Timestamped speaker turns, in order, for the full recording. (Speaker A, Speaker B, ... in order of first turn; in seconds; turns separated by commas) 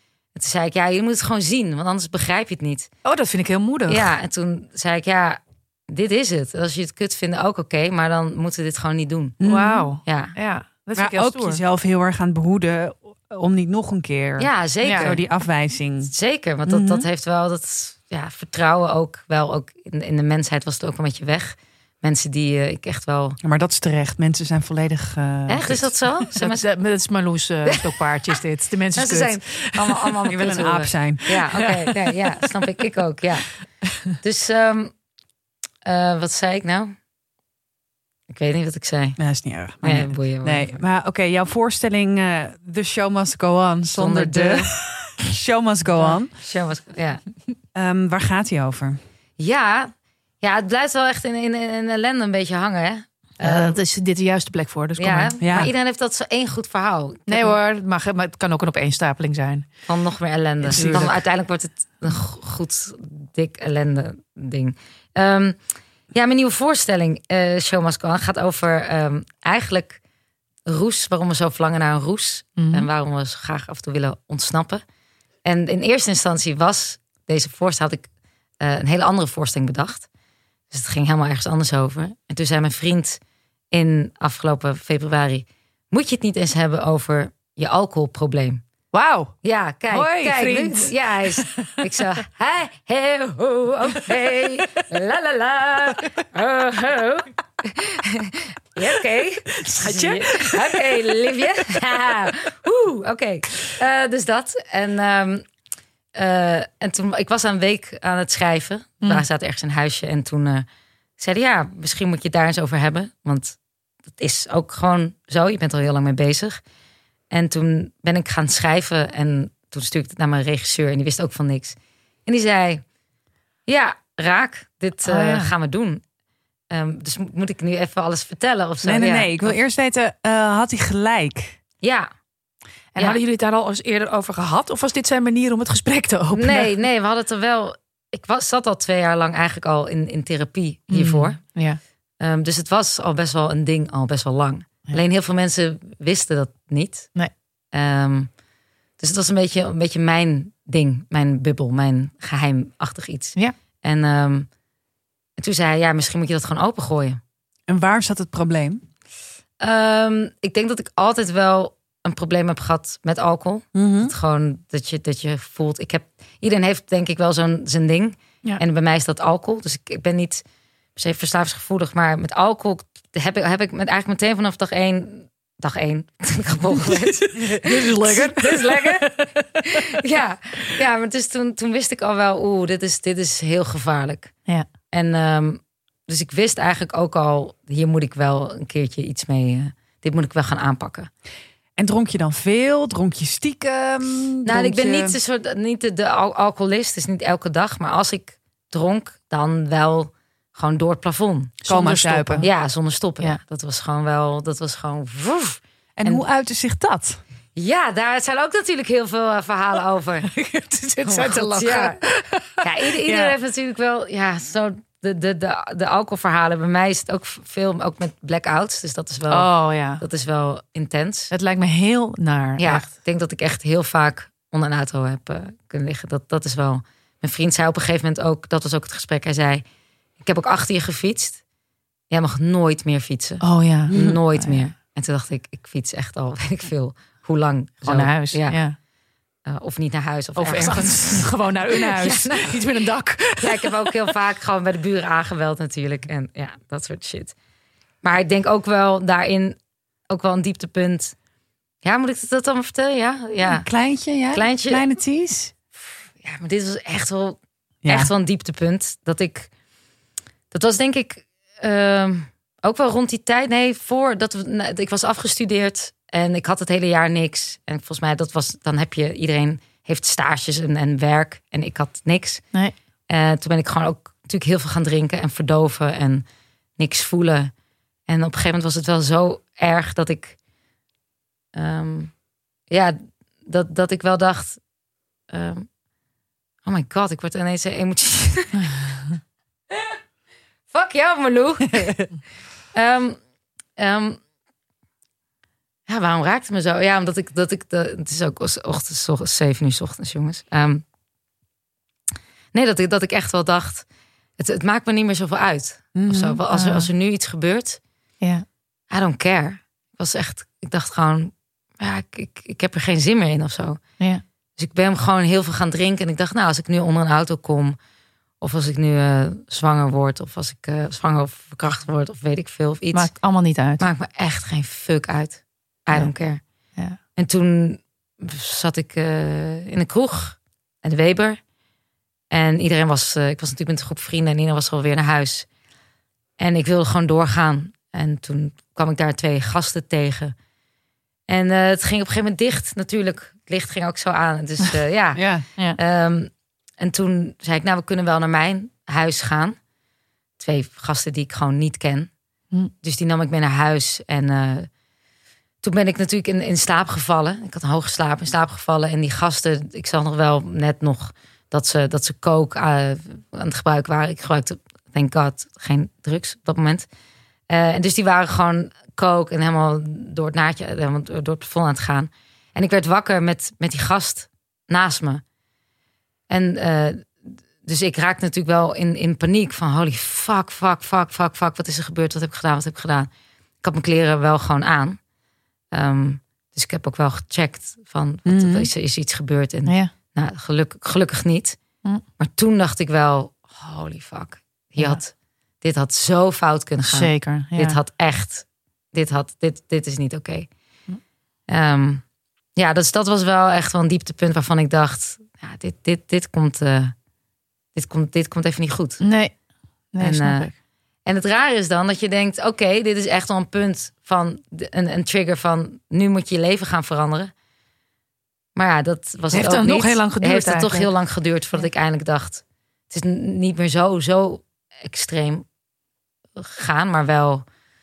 Speaker A: 0.3-2.9, Speaker B: 3.0-4.1, Speaker A: 3.9-9.4, Speaker C: 9.4-9.9, Speaker B: 9.4-11.6, Speaker A: 10.0-10.3, Speaker C: 10.9-16.1, Speaker A: 14.4-15.2, Speaker B: 14.8-15.1, Speaker A: 16.1-23.4, Speaker C: 16.7-17.1, Speaker C: 23.4-26.1, Speaker A: 25.5-26.7, Speaker B: 26.4-29.9, Speaker A: 28.9-33.5, Speaker C: 30.2-31.4, Speaker A: 34.1-34.9, Speaker A: 35.8-36.9, Speaker A: 38.3-39.2, Speaker C: 39.2-46.3, Speaker A: 39.8-40.8, Speaker A: 43.9-44.7, Speaker A: 46.0-47.2, Speaker C: 47.7-49.0, Speaker A: 49.4-53.8, Speaker B: 53.4-55.7, Speaker A: 55.0-57.6, Speaker C: 55.4-55.7, Speaker B: 57.3-59.7, Speaker A: 59.9-65.6, Speaker C: 60.6-61.1, Speaker B: 60.7-61.1, Speaker A: 66.1-70.0, Speaker A: 70.7-74.8, Speaker B: 72.6-72.9, Speaker A: 75.4-78.1, Speaker A: 78.6-80.1, Speaker A: 80.7-83.2, Speaker A: 83.7-88.6, Speaker B: 88.9-89.4, Speaker A: 89.4-105.5, Speaker B: 89.9-91.7, Speaker B: 99.6-101.0, Speaker A: 106.1-110.7, Speaker A: 111.2-113.6, Speaker A: 114.1-116.6, Speaker A: 117.3-122.8, Speaker A: 123.7-126.0, Speaker B: 125.0-125.5, Speaker A: 126.7-129.6, Speaker C: 128.8-131.6, Speaker A: 131.8-132.1, Speaker B: 132.9-136.7, Speaker A: 136.3-141.4, Speaker B: 140.9-141.8, Speaker A: 142.2-147.1, Speaker A: 147.7-148.3, Speaker A: 149.0-154.5, Speaker A: 155.4-157.2, Speaker C: 157.7-158.8, Speaker A: 159.6-170.4, Speaker C: 163.7-164.1, Speaker A: 170.9-184.3, Speaker B: 176.8-179.4, Speaker A: 184.9-191.1, Speaker C: 191.8-195.2, Speaker A: 194.4-201.6, Speaker B: 201.6-202.5, Speaker C: 201.7-202.4, Speaker A: 202.4-206.2, Speaker C: 205.9-207.2, Speaker A: 207.6-210.3, Speaker B: 210.3-213.3, Speaker A: 211.0-212.0, Speaker A: 212.6-221.3, Speaker B: 219.3-220.0, Speaker B: 221.3-222.9, Speaker A: 222.6-229.6, Speaker A: 230.2-231.4, Speaker A: 232.1-238.6, Speaker B: 233.4-234.6, Speaker C: 233.9-234.2, Speaker B: 237.8-238.8, Speaker A: 239.4-242.6, Speaker B: 240.4-243.7, Speaker A: 243.4-247.3, Speaker A: 248.0-249.6, Speaker A: 250.1-251.2, Speaker A: 251.8-253.7, Speaker C: 253.4-255.5, Speaker A: 254.3-254.8, Speaker A: 256.2-259.5, Speaker C: 257.8-258.1, Speaker A: 260.5-272.4, Speaker A: 273.1-276.2, Speaker A: 276.8-277.5, Speaker A: 278.1-280.4, Speaker A: 281.5-282.1, Speaker A: 282.7-284.6, Speaker A: 285.3-285.7, Speaker A: 286.6-288.9, Speaker A: 290.7-292.0, Speaker A: 292.7-293.2, Speaker A: 293.8-294.2, Speaker A: 295.9-300.8, Speaker A: 302.5-303.9, Speaker A: 304.4-307.8, Speaker C: 305.9-306.4, Speaker B: 306.5-306.9, Speaker A: 308.9-313.8, Speaker A: 314.6-317.8, Speaker A: 318.4-323.1, Speaker B: 322.9-323.8, Speaker A: 323.8-326.4, Speaker A: 327.1-331.4, Speaker A: 332.3-335.5, Speaker A: 336.4-340.3, Speaker A: 341.3-345.2, Speaker C: 345.1-345.4, Speaker A: 345.8-349.6, Speaker A: 350.4-352.1, Speaker A: 352.8-354.7, Speaker A: 355.6-366.9, Speaker A: 367.5-375.2, Speaker A: 376.3-383.1, Speaker A: 383.6-385.0, Speaker A: 385.7-391.6, Speaker C: 388.2-388.7, Speaker B: 389.6-389.9, Speaker A: 392.2-400.5, Speaker B: 396.9-397.8, Speaker A: 401.5-402.0, Speaker A: 402.6-406.9, Speaker A: 407.7-409.0, Speaker B: 409.0-409.3, Speaker B: 409.9-410.5, Speaker A: 410.0-410.5, Speaker A: 411.1-417.3, Speaker A: 418.5-425.5, Speaker B: 419.3-420.9, Speaker A: 426.4-427.4